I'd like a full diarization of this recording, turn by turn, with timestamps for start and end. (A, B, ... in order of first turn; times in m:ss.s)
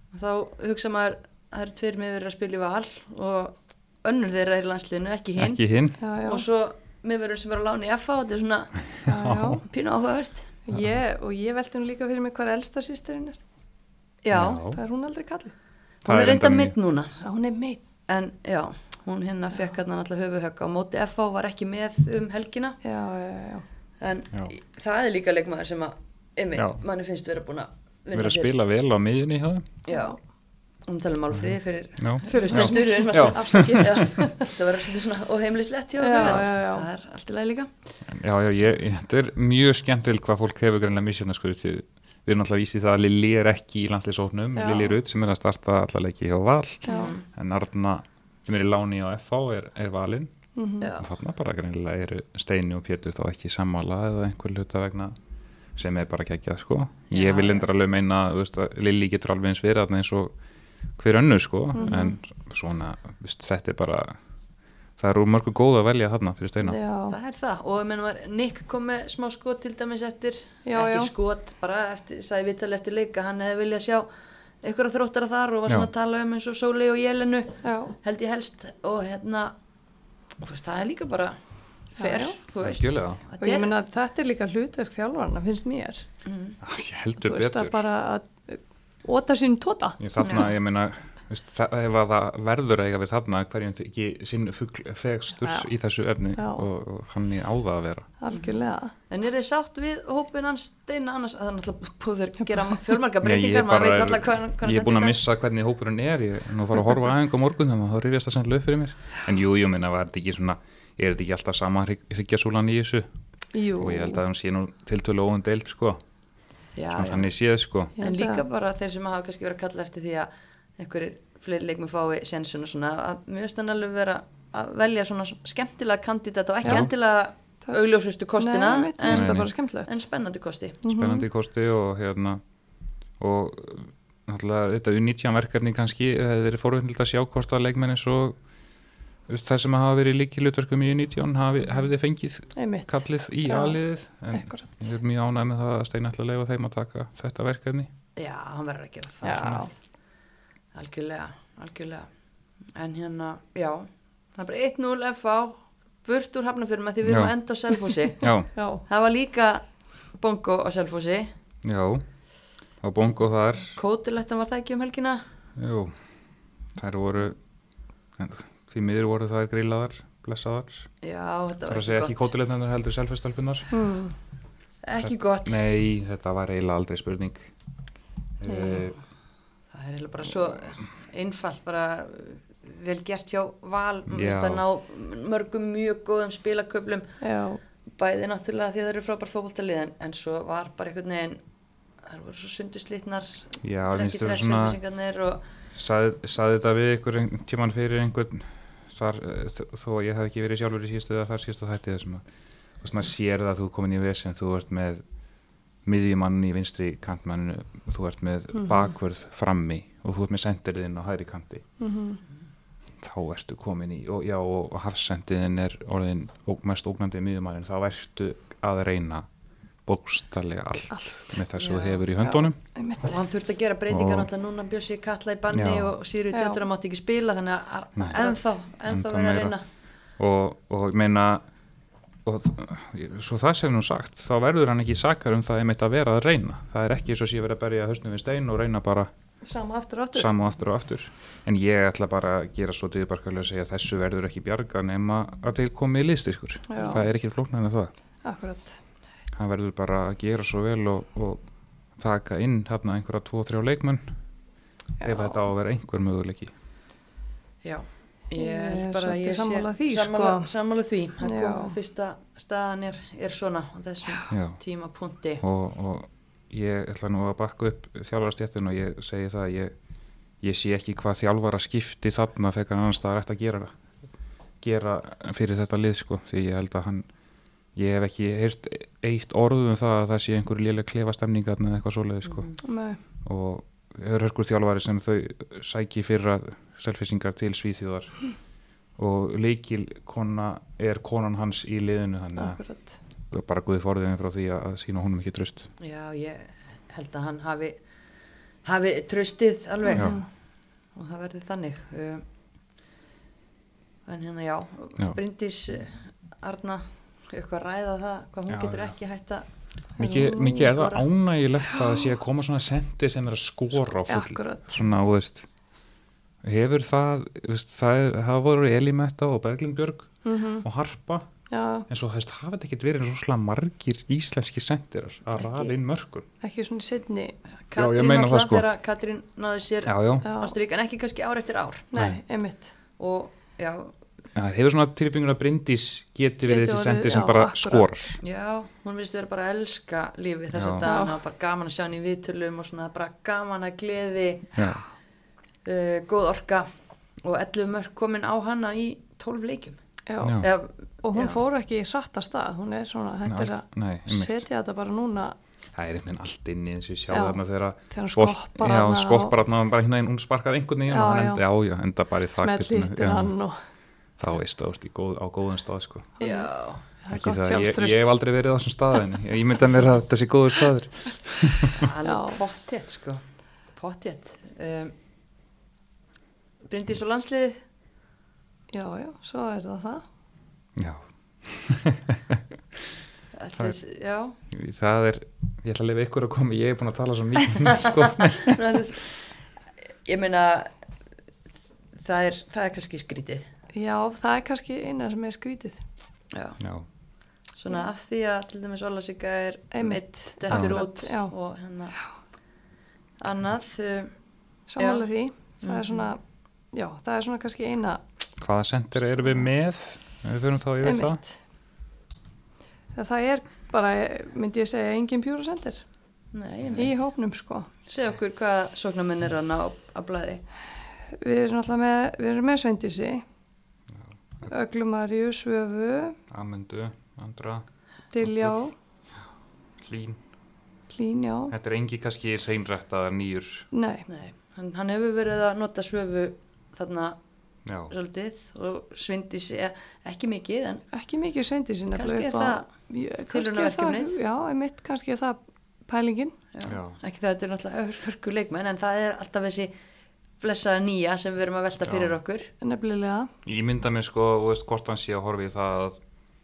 0:00.1-0:05.6 A
0:05.4-0:06.0 B
0:06.0-0:06.4 C
0:06.2-0:08.8 A
0:09.0-0:09.6 B
0:09.1-0:09.6 C
0:09.6-0:10.6 A
0:10.7-0:13.4 C
0:14.2-0:14.6 A
0:14.3-0:14.8 B
0:14.7-0:15.5 C
0:16.0-0:17.2 A
0:16.0-0:16.8 B
0:17.2-0:17.8 C
0:18.1-0:22.8 A
0:22.8-0:23.7 C
0:24.0-0:28.5 A
0:28.1-0:29.7 B
0:29.8-0:30.2 A
0:30.9-0:37.7 A
0:31.3-0:34.1 B
0:32.3-0:34.5 C
0:36.0-0:36.9 C
0:38.1-0:50.3 B
0:44.6-0:45.0 C
0:46.9-0:47.1 C
0:46.9-0:47.2 A
0:50.6-0:50.9 C
0:50.8-0:51.1 A
0:51.0-0:55.2 B
0:55.8-1:00.3 B
0:57.1-0:57.7 A
1:01.0-1:04.2 B
1:01.8-1:02.2 C
1:05.0-1:06.8 B
1:06.6-1:07.2 C
1:07.1-1:14.1 A
1:10.6-1:11.1 C
1:14.6-1:19.6 A
1:17.6-1:18.0 C
1:20.4-1:21.4 A
1:21.9-1:23.7 A
1:22.0-1:22.4 C
1:22.6-1:23.2 B
1:23.4-1:26.0 C
1:26.2-1:26.6 A
1:26.6-1:27.8 B
1:27.2-1:30.4 C
1:30.0-1:38.1 B
1:30.2-1:30.5 A
1:35.4-1:35.7 C
1:36.4-1:36.7 C
1:38.2-1:38.9 C
1:38.3-1:45.2 A
1:42.6-1:42.8 C
1:43.2-1:53.1 B
1:53.5-1:54.2 C
1:53.8-1:56.0 B
1:56.8-1:57.3 A
1:56.9-1:57.9 B
1:58.0-1:58.4 C
1:58.0-2:10.9 A
2:06.6-2:06.9 B
2:08.4-2:09.9 C
2:09.1-2:09.5 B
2:10.8-2:11.3 C
2:10.9-2:12.4 B
2:13.2-2:18.4 B
2:19.3-2:27.9 B
2:22.6-2:23.8 C
2:24.3-2:24.8 C
2:28.2-2:29.6 A
2:29.2-2:29.7 C
2:30.7-2:32.1 A
2:32.8-2:38.3 A
2:37.1-2:37.3 B
2:38.2-2:38.5 B
2:38.6-2:38.8 C
2:38.9-2:41.3 A
2:41.6-2:42.0 B
2:42.8-2:43.8 B
2:43.8-2:45.2 A
2:45.6-2:46.0 B
2:46.8-2:47.4 B
2:48.2-2:50.9 B
2:51.0-2:52.3 A
2:51.7-2:53.7 B
2:53.7-2:54.2 C
2:54.8-2:55.6 A
2:55.0-2:57.4 B
2:58.4-2:59.0 B
2:58.5-2:58.9 C
2:59.7-3:07.1 A
3:04.1-3:04.6 B
3:07.2-3:07.6 C
3:08.0-3:11.4 A
3:12.0-3:15.4 A
3:13.6-3:14.8 B
3:15.7-3:22.2 B
3:22.8-3:25.0 B
3:25.8-3:31.6 B
3:28.6-3:28.9 C
3:31.8-3:32.2 C
3:33.0-3:39.3 B
3:39.9-3:42.6 B
3:40.9-3:41.3 C
3:41.6-3:42.0 A
3:42.2-3:43.2 C
3:43.0-3:49.6 A
3:43.9-3:44.3 B
3:45.5-3:46.0 B
3:46.3-3:46.6 C
3:48.0-3:48.2 B
3:48.9-3:49.6 B
3:50.2-3:51.4 B
3:52.2-3:59.1 B
3:59.4-4:00.3 C
4:00.1-4:07.9 B
4:06.7-4:07.0 C
4:08.2-4:08.8 C
4:09.3-4:11.4 B
4:12.0-4:14.1 B
4:15.0-4:15.4 C
4:15.0-4:16.5 B
4:17.6-4:25.4 A
4:18.4-4:20.5 C
4:21.2-4:21.8 C
4:24.3-4:24.6 B
4:25.4-4:29.7 B
4:30.4-4:33.8 B
4:34.6-4:37.1 B
4:37.8-4:42.5 B
4:42.2-4:42.6 A
4:42.6-4:43.0 C
4:43.2-4:48.2 B
4:49.0-4:52.6 B
4:52.4-4:53.0 C
4:53.3-4:55.7 B
4:55.8-4:57.8 A
4:58.6-5:00.2 A
4:59.9-5:00.2 C
5:01.0-5:02.2 A
5:04.1-5:09.4 A
5:08.5-5:08.9 B
5:10.0-5:10.8 C
5:10.0-5:15.5 B
5:10.6-5:11.0 A
5:11.7-5:12.0 C
5:14.1-5:14.7 C
5:16.4-5:21.3 B
5:20.2-5:20.6 C
5:21.5-5:21.9 C
5:21.9-5:26.3 B
5:25.4-5:25.8 A
5:26.4-5:27.4 C
5:27.7-5:31.9 A
5:27.8-5:28.7 B
5:29.9-5:30.3 B
5:30.2-5:30.6 C
5:31.9-5:32.7 C
5:31.9-5:32.2 B
5:33.0-5:33.9 A
5:34.4-5:38.2 B
5:36.4-5:38.2 C
5:38.2-5:44.6 A
5:40.5-5:40.9 B
5:40.8-5:41.2 C
5:44.6-5:44.8 B
5:45.6-5:46.7 A
5:47.2-5:49.8 A
5:50.1-5:50.5 C
5:50.2-5:50.5 B
5:50.4-5:51.4 A
5:51.0-5:55.4 C
5:53.3-5:54.4 B
5:55.8-6:03.4 B
5:57.1-5:59.4 C
6:00.9-6:01.4 C
6:02.4-6:03.6 C
6:04.2-6:06.1 B
6:06.2-6:08.1 C
6:06.2-6:06.8 A
6:07.1-6:11.8 B
6:11.7-6:13.2 A
6:12.0-6:12.4 C
6:13.8-6:14.9 A
6:16.7-6:17.6 A
6:18.7-6:20.0 C
6:20.8-6:22.8 B
6:23.4-6:24.4 A
6:24.5-6:28.6 B
6:27.8-6:29.1 A
6:30.0-6:30.7 A
6:32.0-6:33.5 A
6:33.7-6:35.8 C
6:36.3-6:36.6 A
6:36.6-6:36.9 B
6:37.6-6:42.0 A
6:39.7-6:41.3 C
6:40.5-6:40.8 B
6:43.2-6:44.1 A
6:44.7-6:46.2 C
6:44.8-6:45.0 A
6:45.6-6:46.1 A
6:46.7-6:48.0 C
6:48.4-6:51.2 B
6:50.8-6:51.4 C
6:53.0-6:55.8 C
6:56.3-6:57.0 A
6:56.8-6:57.7 C
6:57.9-7:00.4 A
7:01.1-7:03.2 C
7:03.9-7:04.5 B
7:04.5-7:06.2 C
7:06.3-7:07.6 B
7:08.1-7:08.7 C
7:08.2-7:08.6 B
7:09.8-7:10.2 B
7:10.9-7:11.6 C
7:11.5-7:13.7 B
7:13.7-7:14.1 C
7:14.1-7:17.2 A
7:17.7-7:17.9 B
7:17.9-7:20.8 A
7:20.9-7:26.4 C
7:22.0-7:22.7 A
7:23.3-7:24.1 A
7:26.5-7:29.7 A
7:26.7-7:27.0 B
7:30.4-7:32.5 A
7:31.8-7:32.2 B
7:32.6-7:33.3 C
7:33.4-7:36.0 B